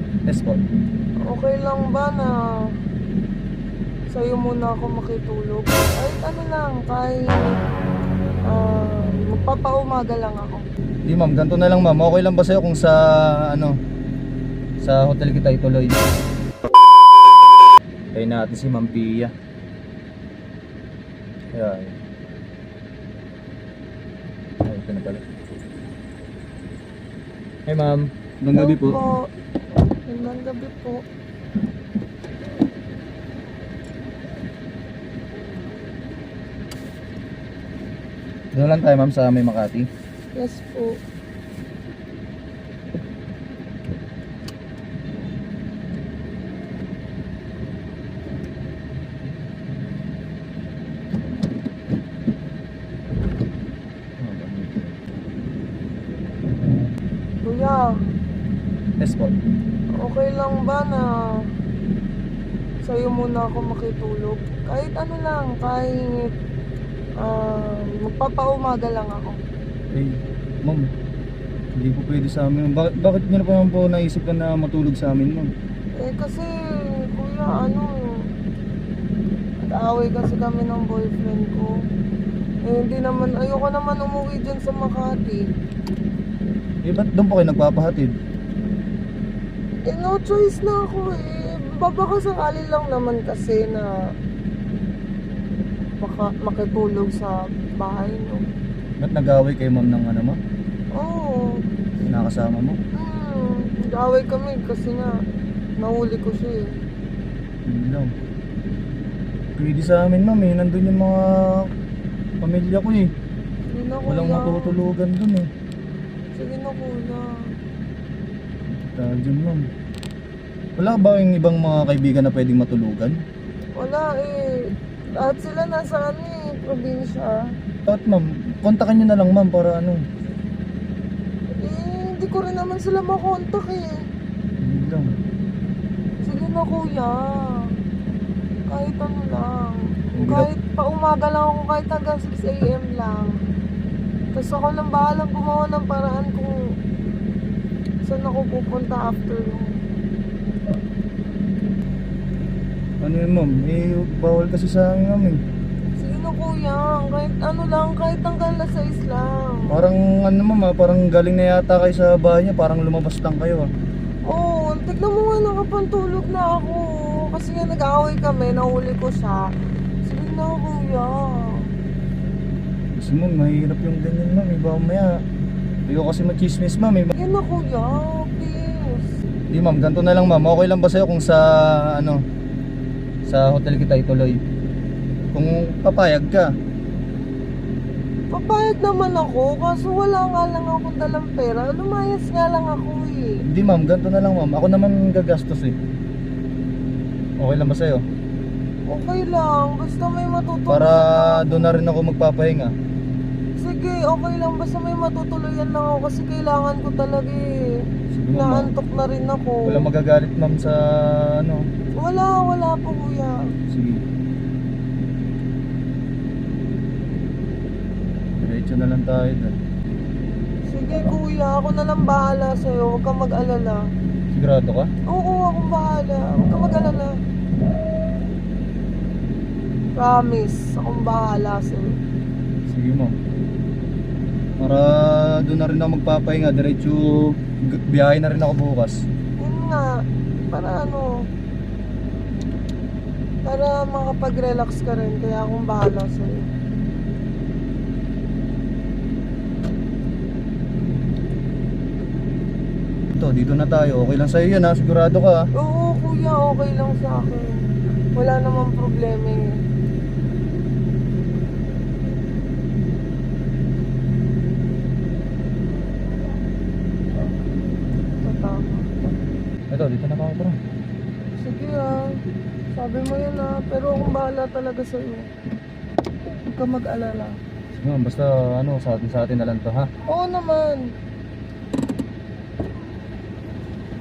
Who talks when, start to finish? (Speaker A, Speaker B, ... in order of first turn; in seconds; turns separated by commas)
Speaker A: 0.3-0.6, Speaker B: 1.2-2.4, Speaker B: 4.1-7.6, Speaker B: 8.5-10.7, Speaker A: 11.1-13.8, Speaker A: 14.8-16.0, Speaker A: 18.1-19.3, Speaker A: 21.5-22.0, Speaker A: 24.6-25.2, Speaker A: 27.7-29.0, Speaker B: 28.5-29.3, Speaker B: 30.1-31.0, Speaker A: 38.5-39.9, Speaker B: 40.4-41.0, Speaker A: 54.2-55.0, Speaker B: 57.4-57.9, Speaker A: 59.0-59.3, Speaker B: 60.0-61.5, Speaker B: 62.8-66.3, Speaker B: 67.2-69.4, Speaker A: 69.9-70.9, Speaker A: 71.8-75.5, Speaker B: 76.0-78.3, Speaker B: 79.6-81.7, Speaker B: 82.7-85.5, Speaker A: 86.8-88.1, Speaker B: 89.9-93.9, Speaker B: 96.0-98.4, Speaker A: 99.0-100.4, Speaker B: 100.9-101.6, Speaker A: 102.0-102.8, Speaker B: 103.0-105.2, Speaker B: 105.8-106.7, Speaker A: 107.7-108.1, Speaker A: 109.6-111.7, Speaker A: 112.4-113.1, Speaker B: 113.7-114.8, Speaker A: 114.1-115.5, Speaker B: 116.3-117.3, Speaker A: 118.7-119.7, Speaker A: 120.8-123.2, Speaker B: 123.8-127.5, Speaker A: 127.9-130.0, Speaker B: 131.6-134.0, Speaker A: 134.6-135.1, Speaker B: 136.2-137.7, Speaker B: 138.7-143.3, Speaker A: 140.2-140.5, Speaker B: 144.3-146.5, Speaker B: 148.0-149.8, Speaker A: 153.0-155.4, Speaker B: 156.0-159.8, Speaker A: 159.7-163.7, Speaker B: 164.3-169.5, Speaker B: 170.0-171.7, Speaker A: 173.0-175.2, Speaker A: 175.9-177.1, Speaker B: 177.1-179.2, Speaker A: 179.5-182.2, Speaker A: 183.3-184.4, Speaker A: 185.3-186.5, Speaker B: 188.3-193.4, Speaker A: 193.5-195.8, Speaker A: 197.4-198.0, Speaker B: 198.9-201.8, Speaker A: 200.7-202.7, Speaker B: 203.6-207.5, Speaker A: 208.1-208.7, Speaker B: 208.4-209.9, Speaker A: 209.7-211.6, Speaker B: 212.0-213.4, Speaker A: 213.7-214.0, Speaker A: 218.4-219.6, Speaker B: 220.7-223.8, Speaker A: 224.3-224.9, Speaker B: 225.1-227.2, Speaker B: 229.9-231.9, Speaker A: 232.7-233.1, Speaker A: 234.6-239.0, Speaker B: 239.4-240.0, Speaker B: 240.5-241.1, Speaker B: 243.4-246.5, Speaker A: 253.2-255.5, Speaker B: 255.6-259.5, Speaker B: 268.2-268.9, Speaker A: 269.7-270.6, Speaker B: 271.4-272.1, Speaker B: 272.8-275.3, Speaker B: 276.5-277.4, Speaker A: 277.7-279.9, Speaker B: 280.1-280.9